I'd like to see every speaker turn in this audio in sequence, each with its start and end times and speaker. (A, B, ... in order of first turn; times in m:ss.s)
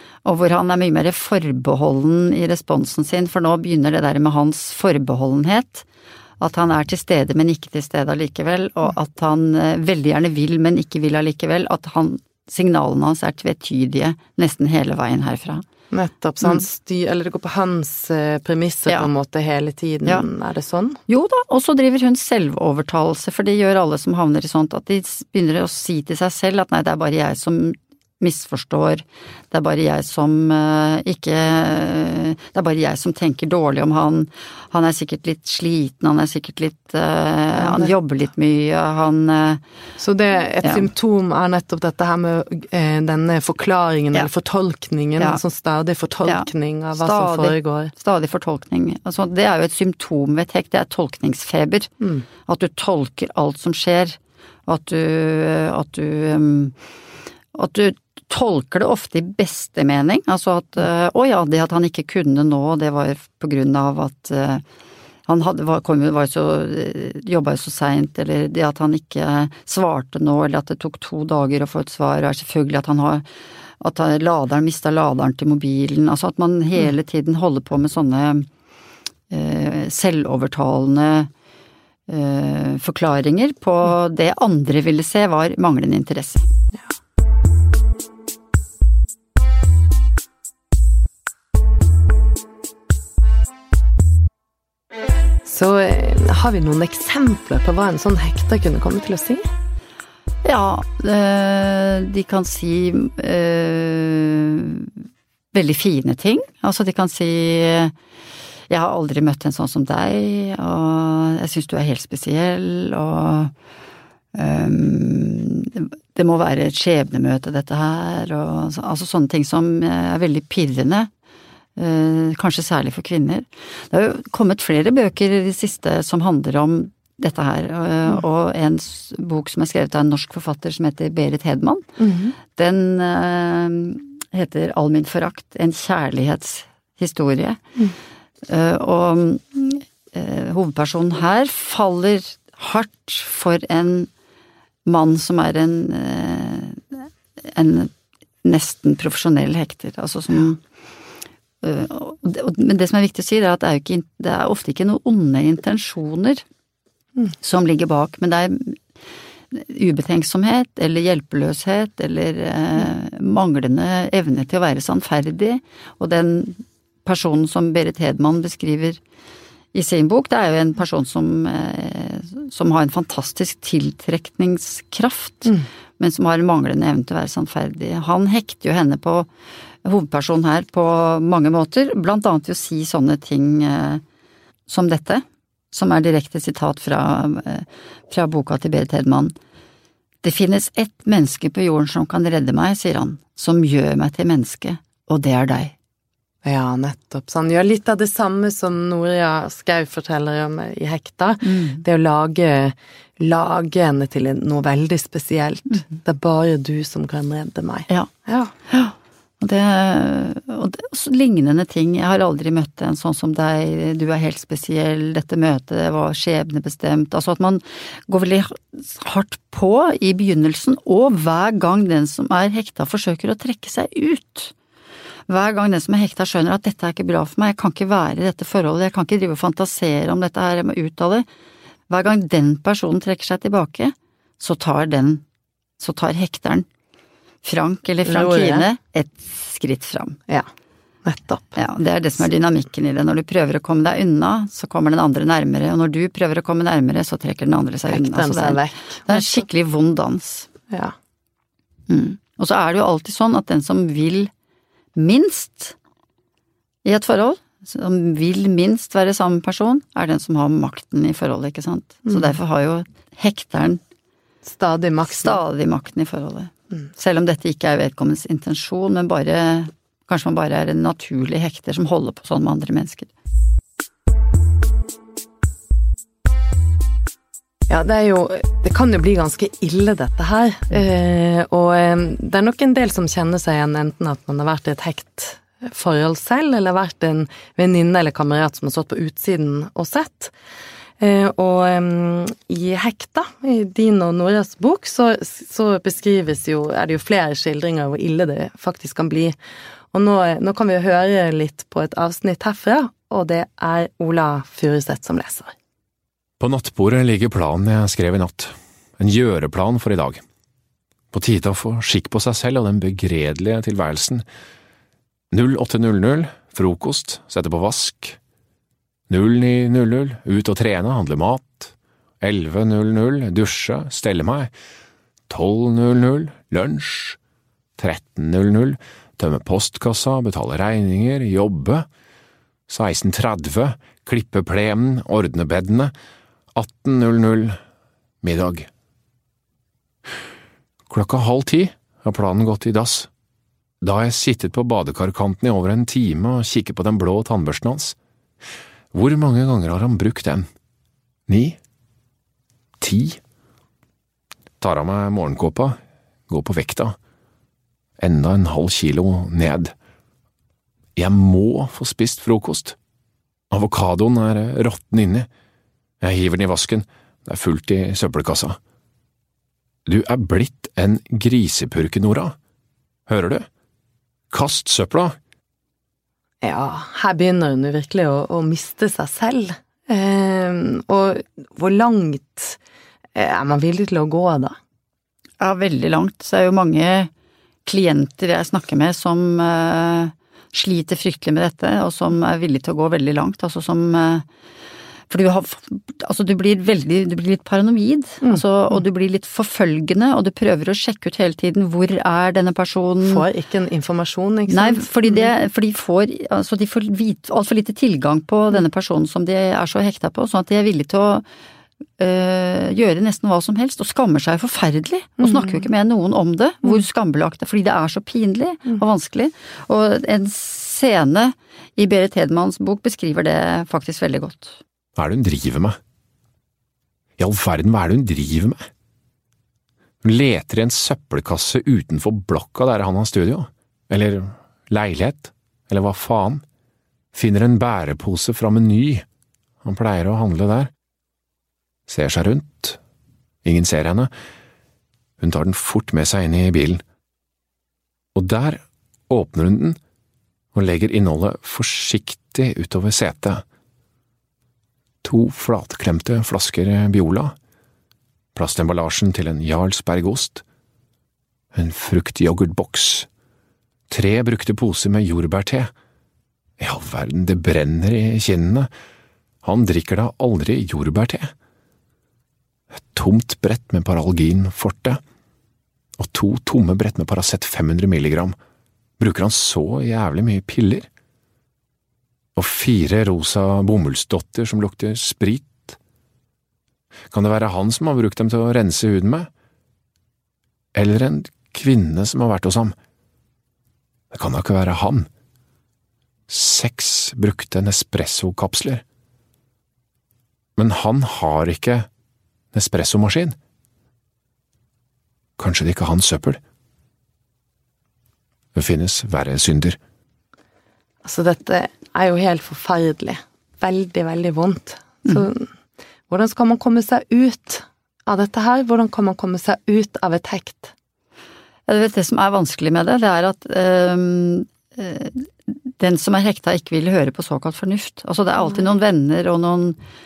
0:00.2-0:05.8 A
0:06.4-0:15.6 A
0:15.9-0:21.0 B
0:21.1-0:39.6 A
0:37.6-0:37.9 B
0:40.0-0:47.9 B
0:46.2-0:51.9 A
0:52.4-0:56.7 A
0:57.5-1:04.6 A
1:05.3-1:13.2 A
1:13.8-1:18.5 A
1:19.3-1:21.3 A
1:22.1-1:26.4 A
1:35.4-1:39.4 B
1:40.4-1:44.9 A
1:45.5-1:47.9 A
1:48.7-1:53.5 A
1:54.3-2:01.1 A
2:01.8-2:11.8 A
2:12.0-2:12.3 B
2:12.5-2:17.6 A
2:18.5-2:24.1 A
2:24.8-2:27.9 A
2:28.4-2:30.6 A
2:31.6-2:36.4 A
2:37.4-2:38.8 A
2:39.5-2:49.0 A
2:49.7-2:59.3 A
2:59.8-3:04.0 A
3:04.7-3:09.3 A
3:10.2-3:15.7 A
3:16.4-3:28.5 B
3:21.4-3:21.8 A
3:28.7-3:44.5 A
3:45.3-3:51.2 A
3:51.9-3:55.2 A
3:55.8-3:56.6 A
3:57.4-4:00.2 A
3:58.0-3:58.7 B
4:01.0-4:01.6 B
4:01.6-4:10.5 A
4:07.9-4:09.3 B
4:11.9-4:14.3 A
4:15.0-4:15.7 A
4:16.8-4:23.8 A
4:24.4-4:25.4 B
4:25.1-4:33.1 A
4:37.7-4:50.3 B
4:51.0-4:59.3 B
4:59.9-5:05.5 B
5:06.4-5:10.2 C
5:11.1-5:14.2 C
5:15.3-5:18.2 C
5:19.1-5:24.5 C
5:25.3-5:27.2 C
5:27.8-5:31.9 C
5:32.7-5:35.9 C
5:36.5-5:37.6 C
5:38.2-5:38.7 C
5:40.9-5:43.1 C
5:43.8-5:48.0 C
5:48.9-5:50.5 C
5:51.3-5:51.6 C
5:52.8-5:53.2 C
5:54.6-5:57.0 C
5:58.0-5:59.7 C
6:01.0-6:02.8 C
6:03.5-6:05.3 C
6:06.0-6:08.6 C
6:09.8-6:12.4 C
6:13.1-6:13.5 C
6:14.3-6:15.2 C
6:16.4-6:22.6 B
6:23.1-6:24.6 B
6:25.4-6:27.1 A
6:27.6-6:34.2 A
6:35.1-6:43.2 A
6:43.0-6:45.3 B
6:44.5-6:51.2 A
6:52.0-7:04.6 A
6:55.2-6:55.6 B
7:05.0-7:05.8 C
7:07.2-7:08.6 C
7:10.0-7:16.4 C
7:17.1-7:19.0 C
7:19.6-7:20.7 C
7:21.9-7:22.8 C
7:23.4-7:24.1 C
7:25.2-7:26.8 C
7:28.1-7:29.8 C
7:30.5-7:33.4 C
7:35.0-7:37.3 C
7:38.3-7:40.4 C
7:41.5-7:43.1 C
7:43.9-7:45.7 C
7:46.6-7:48.7 C
7:49.4-7:51.3 C
7:52.7-7:55.0 C
7:56.0-7:58.4 C
7:59.0-8:00.9 C
8:02.3-8:05.8 C
8:07.1-8:09.3 C
8:10.7-8:12.7 C
8:14.1-8:15.1 C
8:16.3-8:18.8 C
8:20.6-8:21.9 C
8:22.5-8:23.4 C
8:25.4-8:26.4 C
8:28.5-8:29.8 C
8:31.0-8:35.5 B
8:36.1-8:40.7 B
8:41.7-8:49.8 A